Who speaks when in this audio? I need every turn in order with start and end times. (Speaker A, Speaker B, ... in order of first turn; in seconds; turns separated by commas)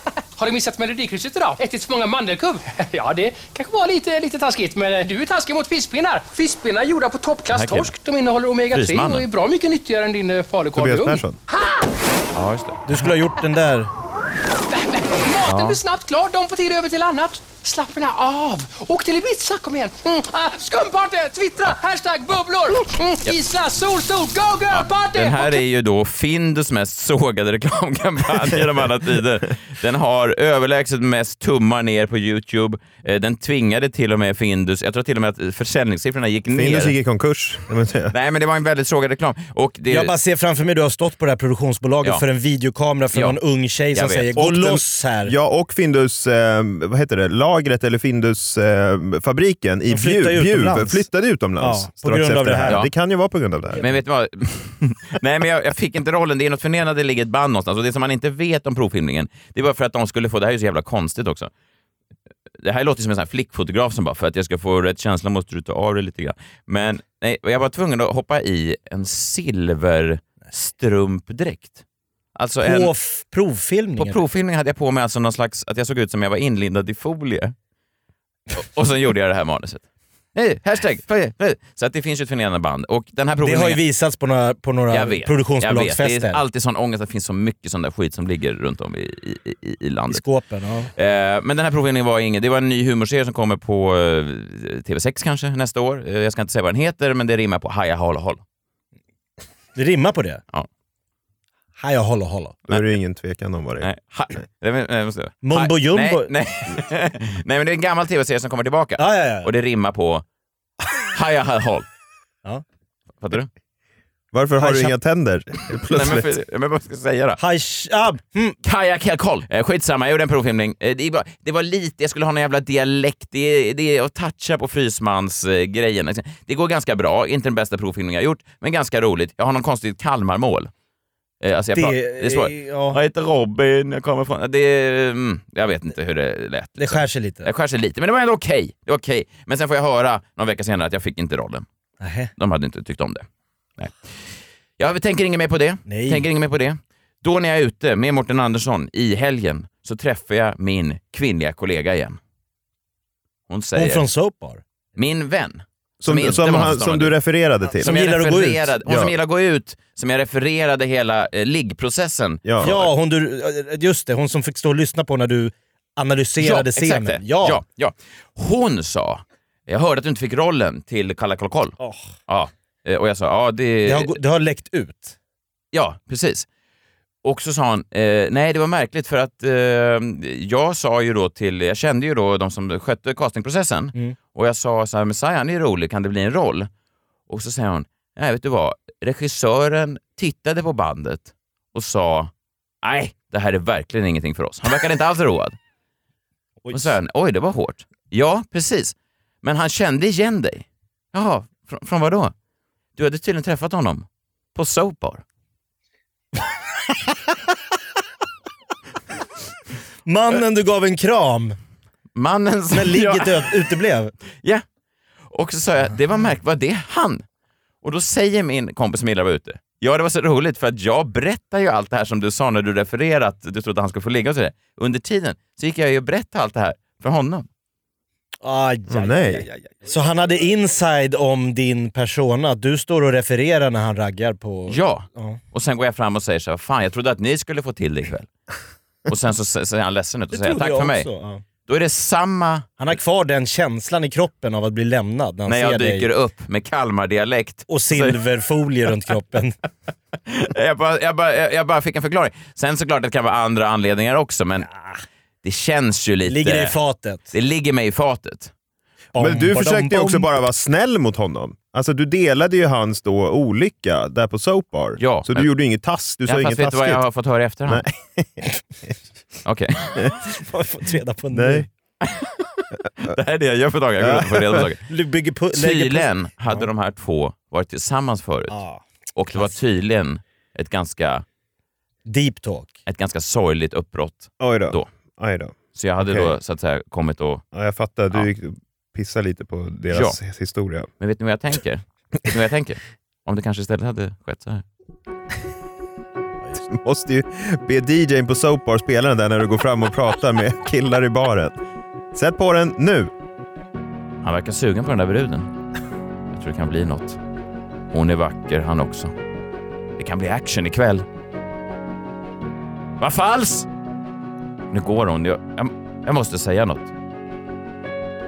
Speaker A: 0.4-11.9, Speaker B: 7.5-8.0, Speaker B: 8.7-9.3, Speaker C: 10.7-11.4, Speaker B: 12.3-13.2, Speaker D: 12.9-13.9, Speaker A: 14.7-25.6, Speaker B: 15.5-15.8, Speaker B: 24.7-37.0, Speaker C: 36.5-38.1, Speaker B: 38.1-40.1, Speaker D: 39.9-45.3, Speaker B: 43.1-43.4, Speaker B: 43.9-44.3, Speaker C: 44.4-53.9, Speaker D: 49.9-51.0, Speaker D: 51.6-52.8, Speaker B: 53.8-61.5, Speaker B: 62.6-71.8, Speaker B: 72.3-72.9, Speaker D: 72.6-74.2, Speaker B: 74.0-77.5, Speaker B: 78.5-83.8, Speaker D: 83.4-86.4, Speaker B: 84.9-90.2, Speaker D: 90.1-90.9, Speaker B: 91.0-98.4, Speaker D: 99.8-100.4, Speaker D: 101.8-102.6, Speaker C: 102.7-103.9, Speaker B: 103.8-110.2, Speaker D: 105.4-106.3, Speaker D: 109.0-109.5, Speaker B: 111.1-111.9, Speaker B: 113.2-113.5, Speaker C: 114.3-116.3, Speaker D: 114.6-114.9, Speaker B: 115.9-117.4, Speaker D: 117.4-118.6, Speaker B: 118.6-130.7, Speaker B: 131.4-141.7, Speaker D: 131.8-133.0, Speaker D: 136.8-137.5, Speaker D: 142.0-142.3, Speaker B: 142.4-143.2, Speaker B: 143.8-152.2, Speaker D: 145.9-146.3, Speaker B: 153.5-154.1, Speaker D: 153.8-154.6, Speaker B: 155.0-157.2, Speaker C: 156.0-158.0, Speaker D: 157.8-158.7, Speaker B: 157.8-162.9, Speaker C: 158.8-159.1, Speaker C: 162.4-162.7, Speaker D: 162.6-167.6, Speaker B: 166.4-171.8, Speaker D: 171.8-172.1, Speaker B: 172.3-174.2, Speaker D: 173.8-175.2, Speaker B: 175.7-176.5, Speaker B: 177.2-186.7, Speaker B: 187.3-192.3, Speaker B: 192.8-195.6, Speaker B: 196.7-202.3, Speaker B: 203.0-205.2, Speaker D: 210.1-211.6, Speaker B: 212.2-213.6, Speaker D: 212.7-214.1, Speaker B: 215.3-217.2, Speaker B: 217.8-227.5, Speaker D: 228.4-235.4, Speaker C: 228.9-229.5, Speaker B: 234.7-238.3, Speaker B: 239.1-241.1, Speaker D: 240.3-241.4, Speaker B: 241.7-242.8, Speaker D: 242.8-246.1, Speaker B: 245.5-248.2, Speaker D: 247.7-249.6, Speaker B: 250.3-254.7, Speaker B: 255.4-256.8, Speaker D: 256.3-257.3, Speaker B: 257.3-258.5, Speaker D: 259.1-260.3, Speaker C: 259.2-267.0, Speaker B: 265.0-265.5, Speaker B: 266.3-267.9, Speaker C: 267.7-268.5, Speaker B: 269.4-270.1, Speaker D: 270.3-271.7, Speaker C: 271.3-271.7, Speaker B: 272.0-272.3, Speaker B: 273.0-274.8, Speaker C: 274.0-274.7, Speaker D: 274.9-276.6, Speaker B: 275.5-278.6, Speaker D: 278.5-279.6, Speaker B: 279.2-281.2, Speaker D: 282.1-282.7, Speaker B: 282.9-284.9, Speaker C: 284.4-286.3, Speaker B: 285.7-287.4, Speaker C: 287.5-290.9, Speaker B: 289.9-290.2, Speaker B: 291.0-294.6, Speaker C: 296.6-301.6, Speaker C: 302.1-303.1, Speaker B: 304.2-305.5, Speaker B: 306.3-307.2, Speaker B: 307.9-309.1, Speaker B: 310.0-311.1, Speaker B: 313.0-313.7, Speaker B: 314.7-316.9